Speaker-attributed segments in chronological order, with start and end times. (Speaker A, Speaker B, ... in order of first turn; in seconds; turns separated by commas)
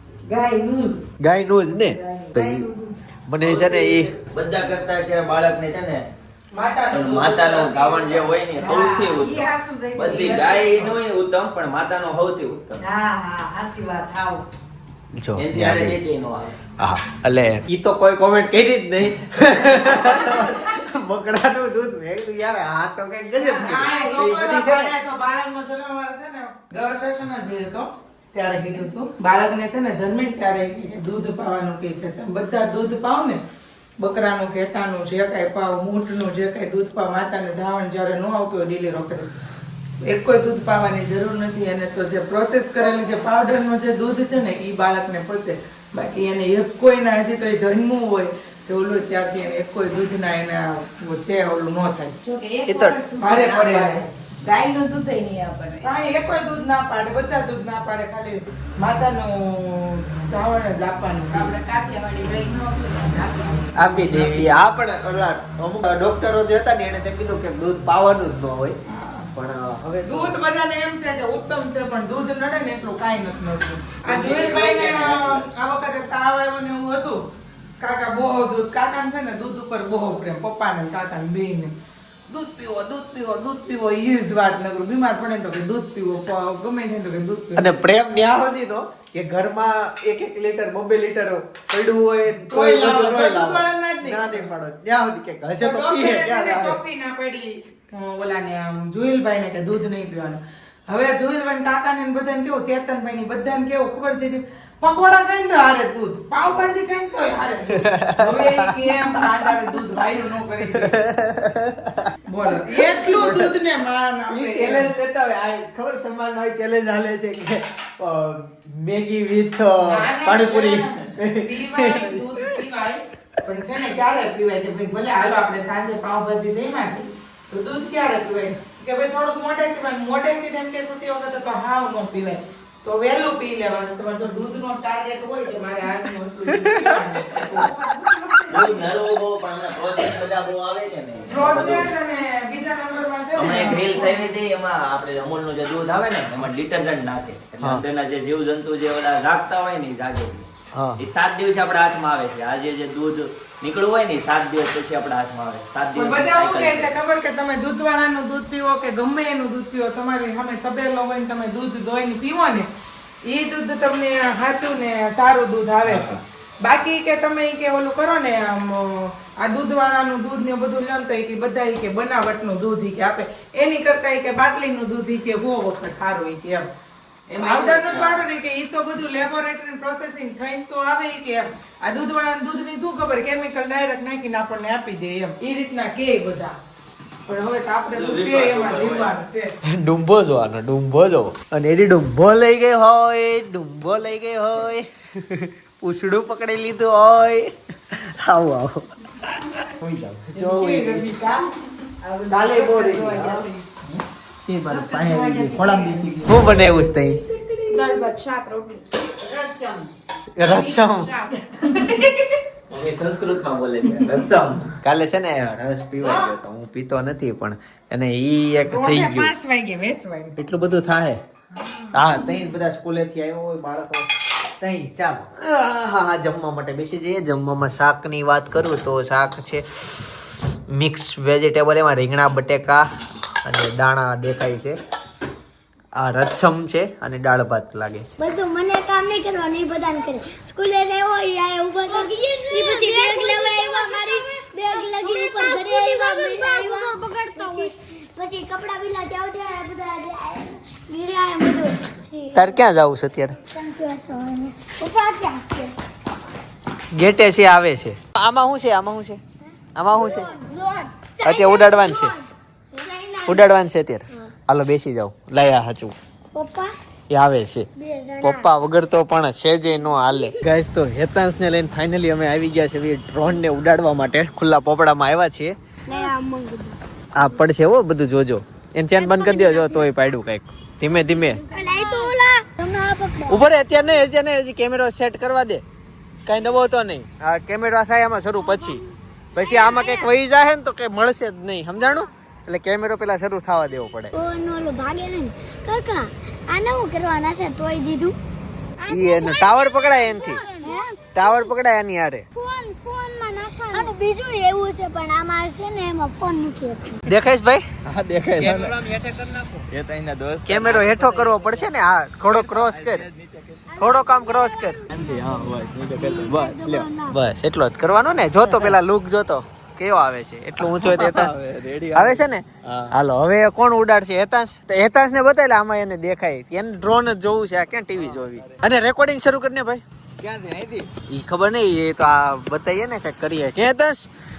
Speaker A: 0.2-1.0, Speaker B: 1.2-2.7, Speaker A: 1.9-2.9, Speaker B: 3.3-4.1, Speaker C: 3.4-6.1, Speaker D: 6.5-8.3, Speaker C: 6.9-12.8, Speaker A: 8.5-10.9, Speaker A: 12.8-14.4, Speaker B: 15.1-16.0, Speaker C: 15.3-16.5, Speaker B: 16.8-24.9, Speaker C: 19.8-20.5, Speaker A: 23.4-24.2, Speaker D: 23.4-33.4, Speaker D: 34.0-39.3, Speaker D: 40.0-52.1, Speaker A: 52.2-56.0, Speaker B: 52.6-53.0, Speaker D: 53.2-54.1, Speaker D: 55.8-61.5, Speaker A: 61.3-64.3, Speaker B: 63.7-68.8, Speaker D: 64.0-64.4, Speaker D: 68.9-69.3, Speaker B: 69.3-70.3, Speaker D: 70.0-77.2, Speaker C: 74.0-75.5, Speaker D: 77.8-81.7, Speaker D: 82.3-87.7, Speaker B: 87.5-96.8, Speaker D: 92.5-94.5, Speaker D: 95.6-111.0, Speaker B: 107.7-109.3, Speaker B: 110.7-113.5, Speaker D: 112.3-114.9, Speaker B: 114.3-122.5, Speaker D: 119.8-138.9, Speaker B: 136.6-136.9, Speaker C: 138.5-141.9, Speaker D: 141.2-144.2, Speaker C: 143.3-150.5, Speaker B: 150.7-151.0, Speaker C: 151.0-157.0, Speaker D: 155.9-162.7, Speaker D: 163.2-176.7, Speaker C: 165.8-166.2, Speaker C: 177.3-178.2, Speaker D: 177.4-186.5, Speaker D: 187.2-189.5, Speaker C: 187.9-189.1, Speaker B: 189.6-201.2, Speaker D: 200.4-201.3, Speaker A: 200.7-201.4, Speaker A: 202.0-203.6, Speaker B: 202.3-203.5, Speaker B: 204.4-207.2, Speaker A: 204.7-206.6, Speaker A: 207.2-209.8, Speaker D: 209.3-209.7, Speaker B: 210.3-211.2, Speaker A: 210.5-211.9, Speaker D: 210.7-212.0, Speaker C: 212.7-214.7, Speaker B: 214.8-219.3, Speaker D: 218.7-220.4, Speaker B: 220.4-221.2, Speaker B: 221.9-230.2, Speaker B: 230.7-232.8, Speaker B: 233.4-234.8, Speaker B: 235.9-238.1, Speaker E: 238.2-252.6, Speaker A: 241.9-244.0, Speaker A: 244.8-247.7, Speaker B: 252.3-253.4, Speaker E: 253.5-255.7, Speaker B: 256.9-259.2, Speaker E: 259.4-262.9, Speaker B: 259.7-260.3, Speaker B: 261.2-262.1, Speaker A: 262.8-263.4, Speaker B: 263.2-265.9, Speaker E: 266.3-266.7, Speaker B: 267.1-267.7, Speaker E: 267.8-268.5, Speaker B: 268.2-275.6, Speaker E: 270.0-270.3, Speaker E: 275.9-277.2, Speaker B: 277.1-281.4, Speaker E: 279.0-279.9, Speaker A: 281.4-282.0, Speaker E: 281.5-283.9, Speaker B: 283.3-285.6, Speaker B: 286.2-288.8, Speaker E: 288.4-288.8, Speaker B: 289.3-294.1, Speaker E: 289.4-290.1, Speaker E: 294.1-298.1, Speaker E: 298.8-301.5, Speaker B: 298.9-300.4, Speaker B: 301.1-302.2, Speaker E: 302.3-307.0, Speaker B: 307.1-307.6, Speaker C: 307.9-309.0, Speaker C: 309.5-311.6, Speaker B: 310.4-313.1, Speaker C: 312.2-313.8, Speaker E: 313.7-317.2, Speaker B: 313.8-314.8, Speaker C: 314.9-316.9, Speaker B: 317.1-321.3, Speaker C: 318.4-318.8, Speaker C: 320.6-322.9, Speaker B: 321.9-329.8, Speaker C: 327.9-328.6, Speaker C: 330.2-330.9, Speaker B: 331.1-334.1